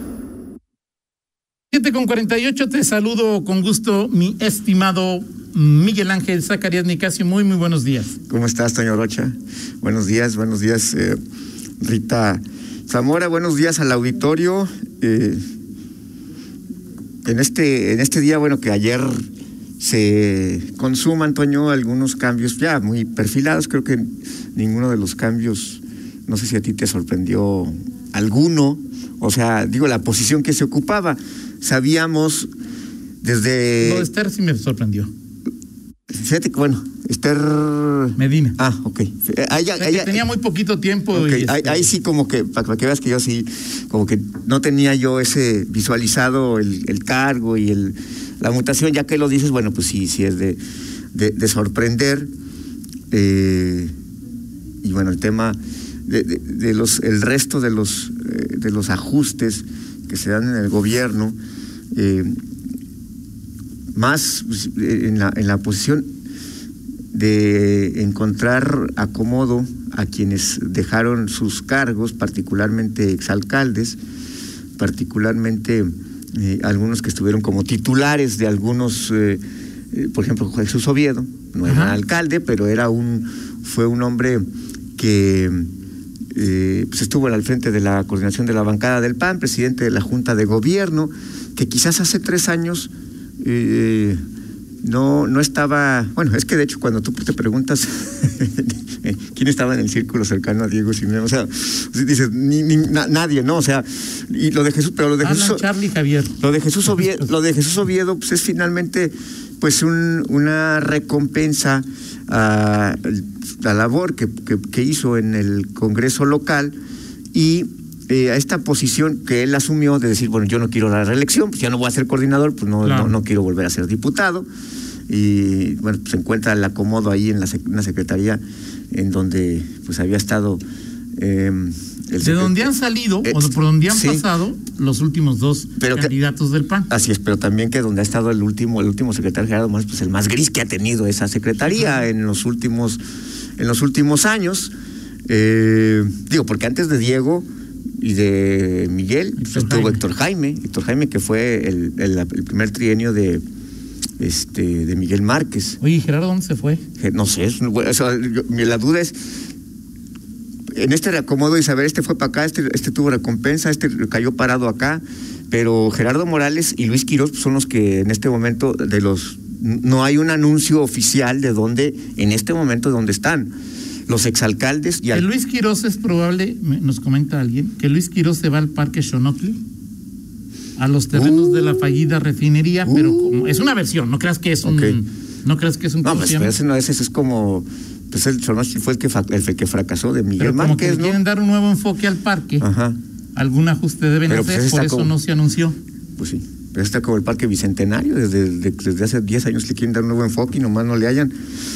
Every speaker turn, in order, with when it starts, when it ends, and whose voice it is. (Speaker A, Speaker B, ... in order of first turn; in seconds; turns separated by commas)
Speaker A: 1.7-8.1, Speaker B: 8.3-11.2, Speaker B: 11.8-15.4, Speaker B: 17.2-19.2, Speaker B: 19.8-32.5, Speaker B: 33.2-34.1, Speaker A: 33.8-35.1, Speaker B: 36.1-40.2, Speaker A: 38.2-38.6, Speaker A: 39.8-41.9, Speaker B: 41.1-50.6, Speaker B: 51.1-52.3, Speaker B: 53.1-53.9, Speaker B: 54.8-61.3, Speaker B: 61.9-62.3, Speaker B: 63.9-66.0, Speaker B: 67.1-74.0, Speaker B: 74.8-79.4, Speaker B: 79.9-84.4, Speaker A: 81.6-82.0, Speaker B: 85.0-85.7, Speaker B: 86.3-94.2, Speaker B: 94.8-105.7, Speaker A: 105.2-107.2, Speaker B: 106.4-116.7, Speaker B: 117.3-124.5, Speaker A: 122.8-123.1, Speaker B: 125.1-130.6, Speaker B: 131.2-132.7, Speaker A: 132.2-136.9, Speaker B: 133.2-134.2, Speaker B: 135.8-136.1, Speaker B: 136.9-143.0, Speaker A: 141.7-142.0, Speaker B: 143.6-144.7, Speaker B: 145.3-147.4, Speaker B: 148.0-153.4, Speaker A: 149.4-150.0, Speaker B: 154.2-155.8, Speaker A: 155.8-156.8, Speaker B: 157.0-159.2, Speaker B: 160.7-173.5, Speaker B: 174.1-175.3, Speaker A: 175.1-179.6, Speaker A: 180.8-186.5, Speaker B: 181.1-182.1, Speaker B: 182.8-183.7, Speaker B: 184.6-185.0, Speaker B: 186.0-191.2, Speaker A: 190.4-192.7, Speaker B: 192.6-193.0, Speaker A: 193.3-195.8, Speaker B: 194.3-195.1, Speaker B: 196.2-201.3